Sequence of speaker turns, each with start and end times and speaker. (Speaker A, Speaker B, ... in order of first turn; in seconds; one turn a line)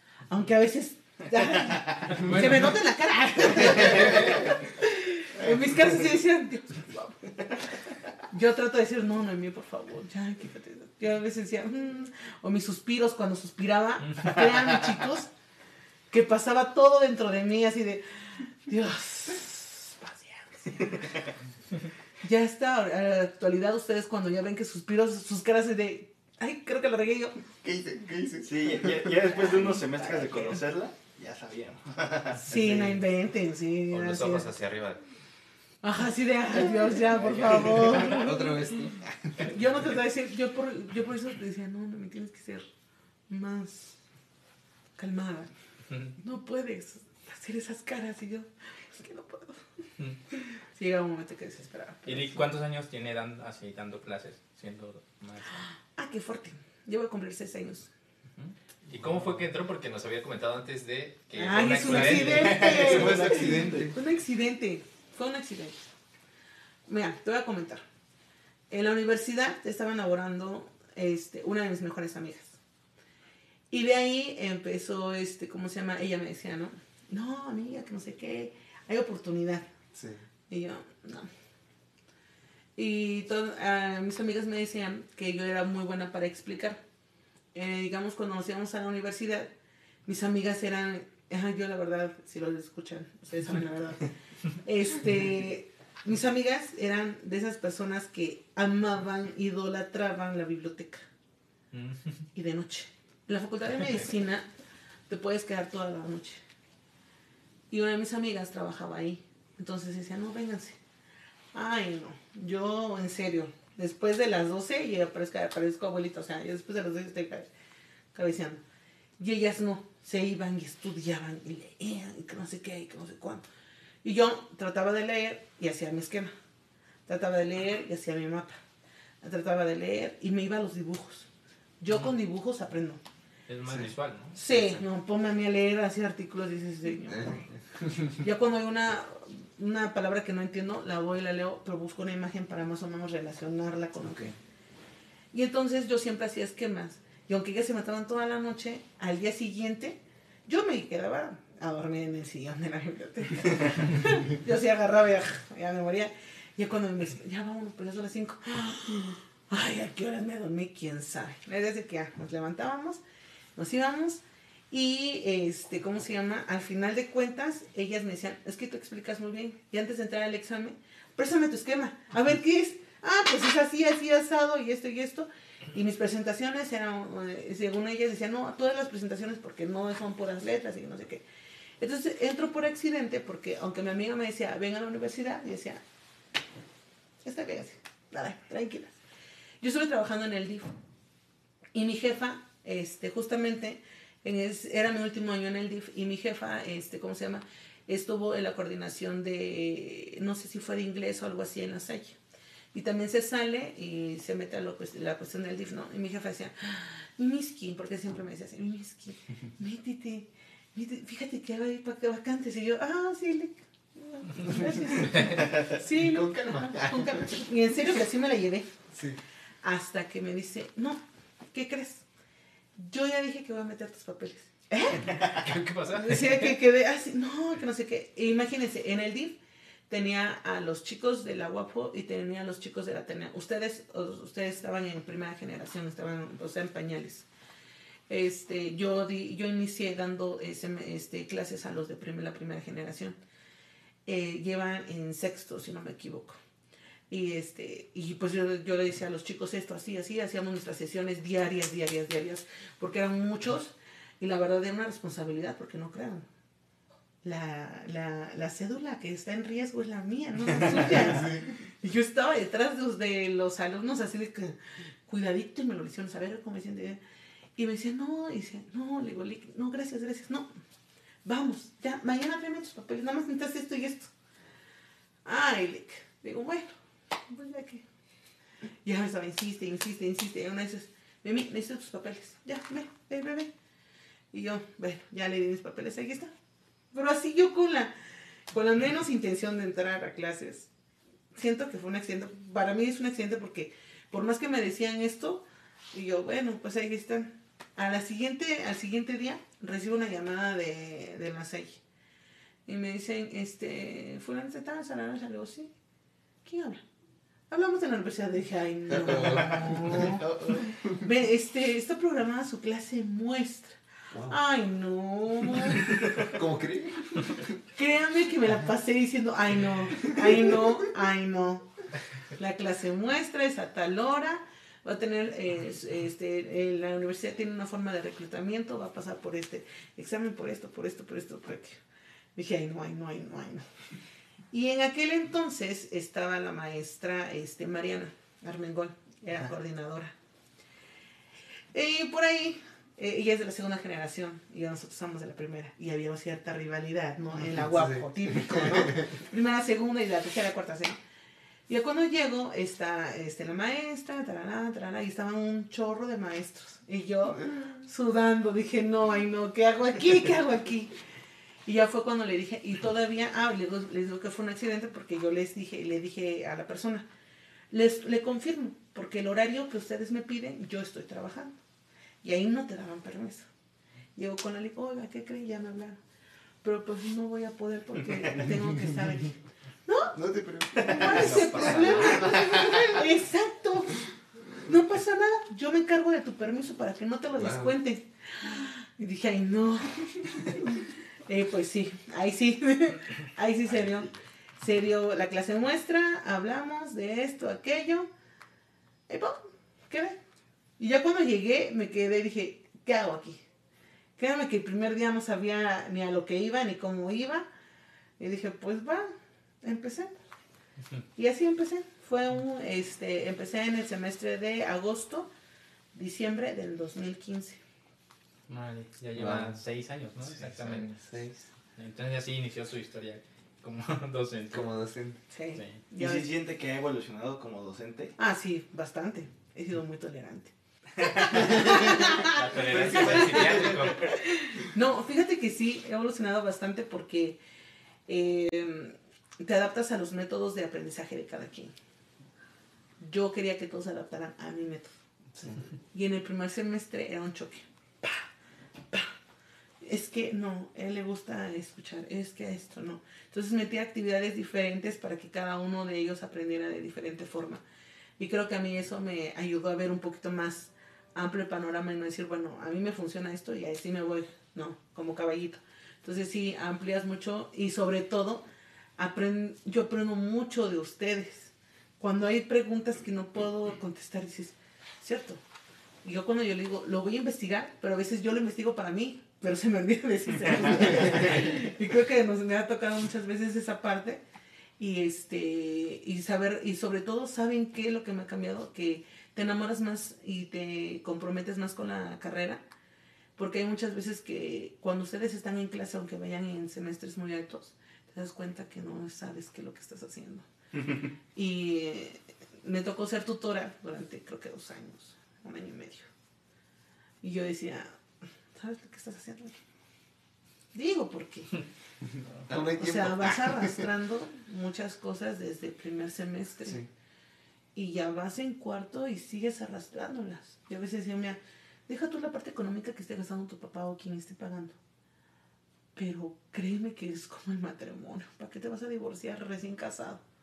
Speaker A: 0.3-7.5
Speaker B: 2.1-2.7
Speaker A: 8.3-15.3
Speaker B: 14.1-14.4
Speaker A: 16.1-21.2
Speaker A: 22.2-27.4
Speaker C: 27.6-33.0
Speaker A: 29.2-30.6
Speaker A: 32.4-34.5
Speaker D: 33.9-35.0
Speaker A: 35.8-42.7
Speaker C: 37.0-39.7
Speaker A: 43.3-44.0
Speaker A: 45.0-45.5
Speaker A: 46.2-49.7
Speaker A: 50.3-52.5
Speaker B: 52.0-55.6
Speaker A: 55.6-57.9
Speaker D: 58.9-63.3
Speaker A: 61.4-65.8
Speaker C: 61.9-64.0
Speaker A: 66.9-67.8
Speaker A: 68.7-72.6
Speaker A: 73.7-79.7
Speaker C: 79.9-80.2
Speaker A: 80.5-81.3
Speaker A: 82.8-86.8
Speaker A: 87.5-89.5
Speaker A: 90.0-101.1
Speaker B: 101.7-102.2
Speaker A: 102.3-104.5
Speaker A: 105.1-106.4
Speaker A: 107.7-110.8
Speaker A: 111.5-117.5
Speaker A: 118.1-118.6
Speaker A: 119.2-123.5
Speaker A: 124.0-126.3
Speaker A: 127.0-128.6
Speaker A: 129.2-131.3
Speaker A: 131.8-133.0
Speaker B: 133.5-134.8
Speaker A: 134.3-137.4
Speaker A: 138.1-144.3
Speaker A: 145.3-163.0
Speaker A: 163.6-181.2
Speaker A: 181.8-185.8
Speaker A: 187.2-188.9
Speaker A: 189.6-190.7
Speaker A: 191.7-202.2
Speaker A: 202.7-218.8
Speaker C: 215.1-216.9
Speaker A: 219.6-221.0
Speaker A: 221.5-222.0
Speaker A: 222.8-225.3
Speaker B: 225.1-226.5
Speaker A: 225.9-237.3
Speaker A: 238.1-243.2
Speaker A: 244.1-246.4
Speaker A: 247.1-256.3
Speaker A: 257.2-267.0
Speaker A: 267.6-270.5
Speaker A: 271.2-274.1
Speaker A: 275.2-276.8
Speaker A: 277.3-277.9
Speaker A: 278.8-283.5
Speaker A: 284.3-286.3
Speaker A: 286.9-287.9
Speaker A: 288.5-290.7
Speaker A: 291.3-301.8
Speaker A: 302.6-305.7
Speaker A: 306.4-306.8
Speaker A: 307.5-316.2
Speaker C: 309.0-310.7
Speaker E: 309.0-309.4
Speaker C: 315.8-317.5
Speaker E: 316.4-317.4
Speaker A: 317.7-321.6
Speaker A: 322.4-331.8
Speaker A: 332.3-333.6
Speaker A: 334.5-340.1
Speaker A: 341.7-351.0
Speaker A: 351.7-360.9
Speaker A: 361.6-367.1
Speaker A: 367.7-371.5
Speaker A: 372.2-373.5
Speaker A: 374.1-376.0
Speaker A: 376.6-380.2
Speaker E: 380.2-381.5
Speaker C: 380.2-382.8
Speaker A: 380.9-384.1
Speaker D: 381.0-382.4
Speaker A: 384.6-398.1
Speaker C: 387.4-387.7
Speaker A: 399.1-400.2
Speaker A: 400.8-403.4
Speaker A: 404.2-407.5
Speaker A: 408.2-409.1
Speaker A: 409.6-410.1
Speaker A: 411.1-415.3
Speaker A: 415.9-417.6
Speaker B: 418.5-421.1
Speaker C: 419.2-419.5
Speaker D: 420.3-421.0
Speaker C: 421.0-421.4
Speaker B: 421.8-424.7
Speaker C: 424.5-424.9
Speaker E: 424.6-425.2
Speaker A: 425.3-426.3
Speaker C: 425.9-428.1
Speaker A: 428.2-437.4
Speaker C: 431.4-431.8
Speaker D: 432.2-434.1
Speaker C: 432.6-434.1
Speaker A: 438.1-441.7
Speaker A: 443.0-444.9
Speaker C: 445.3-445.6
Speaker A: 445.9-448.3
Speaker A: 449.8-457.6
Speaker A: 458.2-468.4
Speaker A: 469.0-475.4
Speaker A: 476.0-484.2
Speaker A: 484.8-492.6
Speaker A: 493.4-500.5
Speaker C: 500.8-501.0
Speaker A: 501.3-506.1
Speaker A: 507.2-507.9
Speaker A: 508.5-509.6
Speaker A: 510.7-511.6
Speaker C: 512.5-513.5
Speaker A: 512.5-516.8
Speaker A: 517.7-524.8
Speaker A: 525.9-530.2